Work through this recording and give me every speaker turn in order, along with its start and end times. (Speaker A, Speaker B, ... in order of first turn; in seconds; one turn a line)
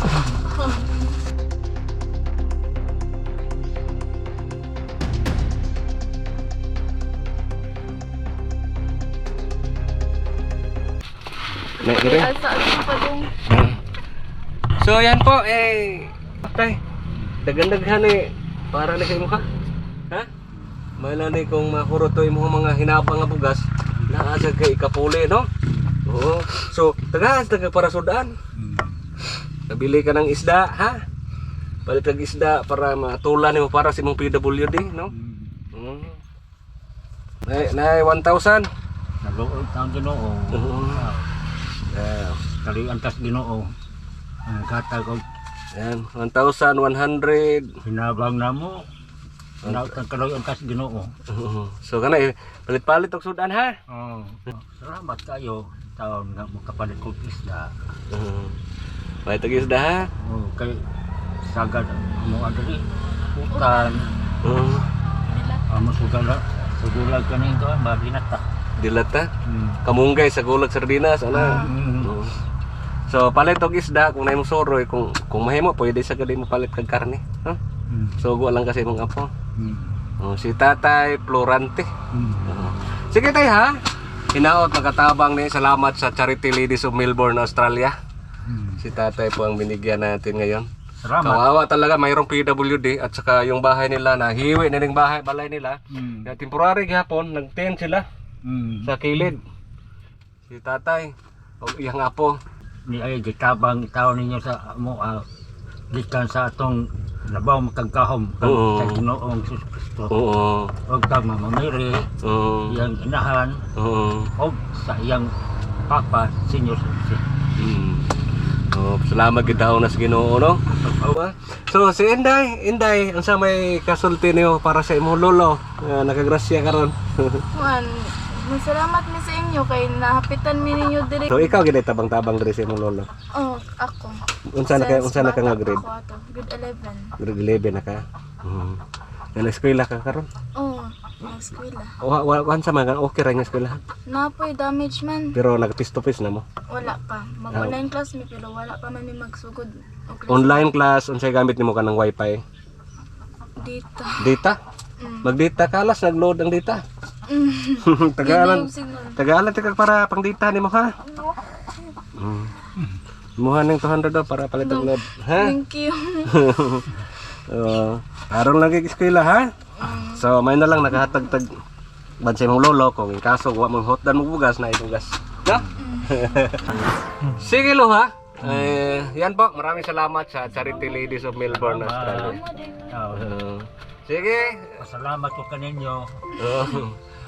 Speaker A: 0.5-1.0
Speaker A: 11.8-13.3
Speaker B: 11.8-12.3
Speaker B: 13.5-13.8
Speaker B: 14.8-16.8
Speaker C: 17.1-17.4
Speaker B: 17.4-19.4
Speaker B: 21.0-25.5
Speaker C: 25.7-26.0
Speaker B: 26.1-28.3
Speaker C: 28.6-29.1
Speaker B: 29.7-31.0
Speaker B: 31.9-35.1
Speaker C: 35.1-35.7
Speaker B: 35.7-36.2
Speaker B: 37.5-38.7
Speaker C: 39.2-41.3
Speaker B: 40.5-41.1
Speaker B: 41.9-42.4
Speaker C: 42.6-43.7
Speaker C: 44.5-45.2
Speaker B: 45.7-47.7
Speaker C: 47.8-48.8
Speaker B: 49.6-50.0
Speaker C: 49.6-51.1
Speaker B: 51.3-53.8
Speaker C: 53.9-57.7
Speaker B: 58.1-58.6
Speaker B: 59.2-60.1
Speaker C: 60.2-60.8
Speaker C: 61.4-62.8
Speaker C: 63.4-64.1
Speaker A: 63.5-64.0
Speaker B: 64.4-64.9
Speaker A: 65.3-65.6
Speaker C: 65.7-68.5
Speaker B: 68.8-69.3
Speaker C: 69.5-69.8
Speaker B: 69.8-72.4
Speaker A: 71.3-71.8
Speaker C: 71.4-72.1
Speaker B: 73.1-77.6
Speaker C: 77.9-78.2
Speaker B: 78.2-79.3
Speaker C: 79.6-80.0
Speaker B: 80.2-81.9
Speaker C: 82.1-82.5
Speaker B: 82.5-83.8
Speaker B: 84.3-88.0
Speaker C: 88.5-88.8
Speaker B: 88.8-90.7
Speaker C: 91.0-91.5
Speaker B: 91.2-98.0
Speaker C: 95.9-96.3
Speaker C: 98.5-99.0
Speaker B: 98.8-99.4
Speaker B: 100.5-102.4
Speaker C: 102.9-105.2
Speaker C: 105.9-110.1
Speaker B: 108.4-109.0
Speaker B: 110.1-110.7
Speaker C: 110.9-112.1
Speaker B: 112.2-112.9
Speaker C: 112.7-113.6
Speaker B: 113.8-114.3
Speaker C: 114.4-115.3
Speaker C: 115.9-117.2
Speaker B: 117.6-118.1
Speaker B: 118.7-127.5
Speaker C: 120.7-121.2
Speaker A: 127.5-131.6
Speaker B: 131.3-133.1
Speaker A: 133.3-134.2
Speaker B: 134.5-135.8
Speaker A: 134.7-137.1
Speaker B: 137.2-138.8
Speaker B: 139.3-140.3
Speaker A: 140.6-141.9
Speaker B: 142.0-143.8
Speaker A: 144.1-145.3
Speaker B: 145.3-146.4
Speaker A: 146.7-150.7
Speaker B: 147.5-147.8
Speaker B: 150.3-152.4
Speaker A: 153.6-154.3
Speaker B: 154.2-154.6
Speaker A: 155.0-155.3
Speaker B: 155.2-156.8
Speaker A: 157.3-159.2
Speaker B: 157.8-160.9
Speaker B: 162.2-162.5
Speaker B: 163.4-165.6
Speaker A: 164.6-166.3
Speaker B: 166.3-169.5
Speaker A: 169.8-170.2
Speaker B: 170.1-171.5
Speaker B: 172.2-182.4
Speaker A: 175.8-176.3
Speaker C: 178.4-178.8
Speaker A: 180.5-181.3
Speaker C: 181.4-183.3
Speaker A: 182.0-183.0
Speaker B: 183.1-184.8
Speaker C: 184.8-186.5
Speaker B: 186.4-187.0